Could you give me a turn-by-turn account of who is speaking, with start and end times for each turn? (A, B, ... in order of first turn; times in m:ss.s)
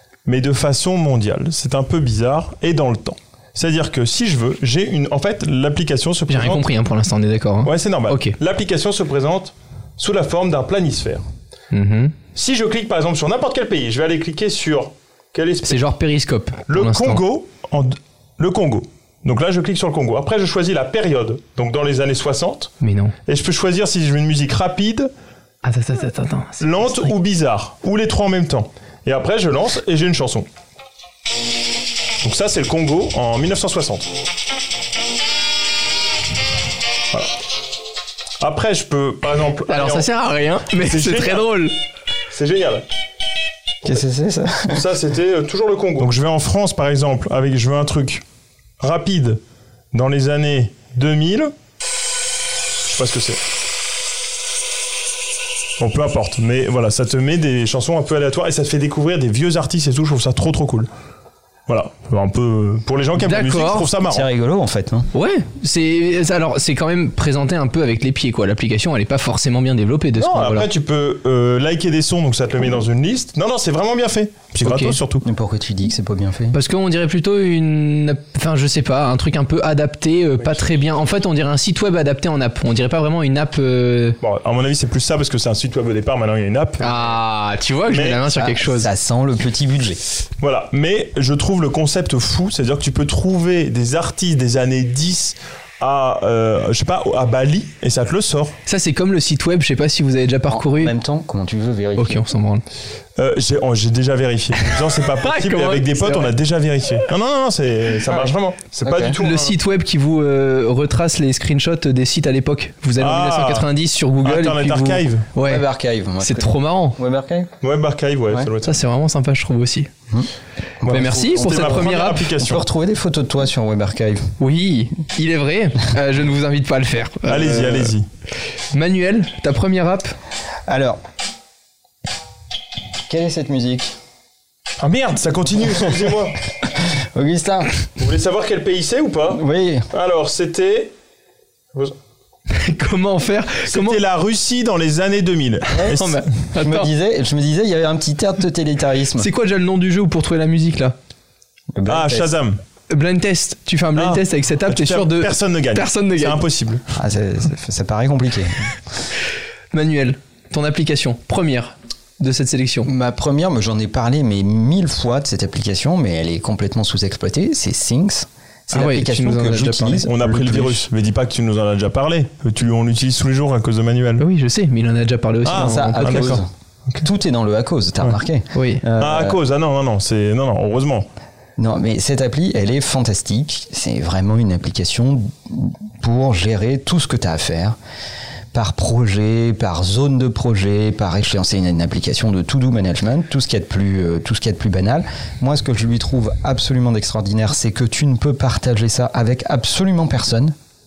0:00.3-0:06.7 A
0:06.3-0:08.4 B
0:07.6-0:11.2 A
0:11.7-0:12.2 B
0:12.4-0:15.8 A
0:15.7-0:17.2 B
0:16.7-0:22.7 A
0:22.8-0:23.2 B
0:23.3-0:25.1 A
0:25.6-0:27.1 B
0:26.6-0:30.5 A
0:32.2-0:34.1 A
0:38.4-0:40.1 A
0:39.7-0:41.8 B
0:40.8-0:41.5 A
0:42.3-0:42.8 A
0:43.8-0:44.8 C
0:44.7-0:48.2 A
0:48.8-0:49.4 A
0:49.9-0:51.5 A
0:52.9-0:53.4 A
0:55.8-1:00.9 A
1:01.7-1:04.3 A
1:03.2-1:03.9 B
1:04.1-1:05.1 C
1:05.1-1:10.7 B
1:10.2-1:15.2 A
1:14.6-1:15.0 B
1:15.2-1:16.6 C
1:16.5-1:24.2 B
1:24.2-1:27.0 A
1:26.8-1:28.9 B
1:27.9-1:28.3 A
1:28.4-1:30.0 C
1:30.4-1:38.6 A
1:38.7-1:40.9 B
1:40.5-1:42.2 C
1:42.0-1:42.6 B
1:43.2-1:49.5 A
1:44.6-1:46.3 B
1:48.1-1:49.2 C
1:49.2-1:55.6 B
1:53.0-1:53.7 A
1:54.2-1:55.2 A
1:55.4-1:57.5 C
1:56.2-1:57.0 B
1:57.6-1:58.8 A
1:58.6-1:59.9 B
2:00.8-2:04.3 C
2:00.9-2:02.6 A
2:00.9-2:02.4 B
2:04.4-2:07.9 B
2:07.3-2:08.1 A
2:08.7-2:10.2 B
2:10.7-2:11.0 C
2:13.1-2:14.0 C
2:14.8-2:16.4 A
2:16.6-2:17.7 C
2:18.0-2:20.9 A
2:19.3-2:19.9 C
2:22.5-2:24.0 B
2:23.7-2:26.2 A
2:25.8-2:26.0 C
2:25.8-2:26.9 B
2:26.6-2:29.3 C
2:29.2-2:31.0 B
2:31.8-2:32.3 C
2:31.9-2:32.6 A
2:32.9-2:36.4 B
2:34.0-2:36.8 A
2:37.0-2:38.7 C
2:39.7-2:42.9 B
2:42.9-2:50.8 C
2:48.7-2:50.1 B
2:50.0-2:54.2 A
2:54.2-2:56.4 B
2:55.4-2:56.4 A
2:55.5-2:56.5 C
2:57.0-2:59.4 C
2:58.5-2:58.8 B
2:59.0-3:01.1 A
3:01.6-3:07.8 C
3:08.5-3:20.6 C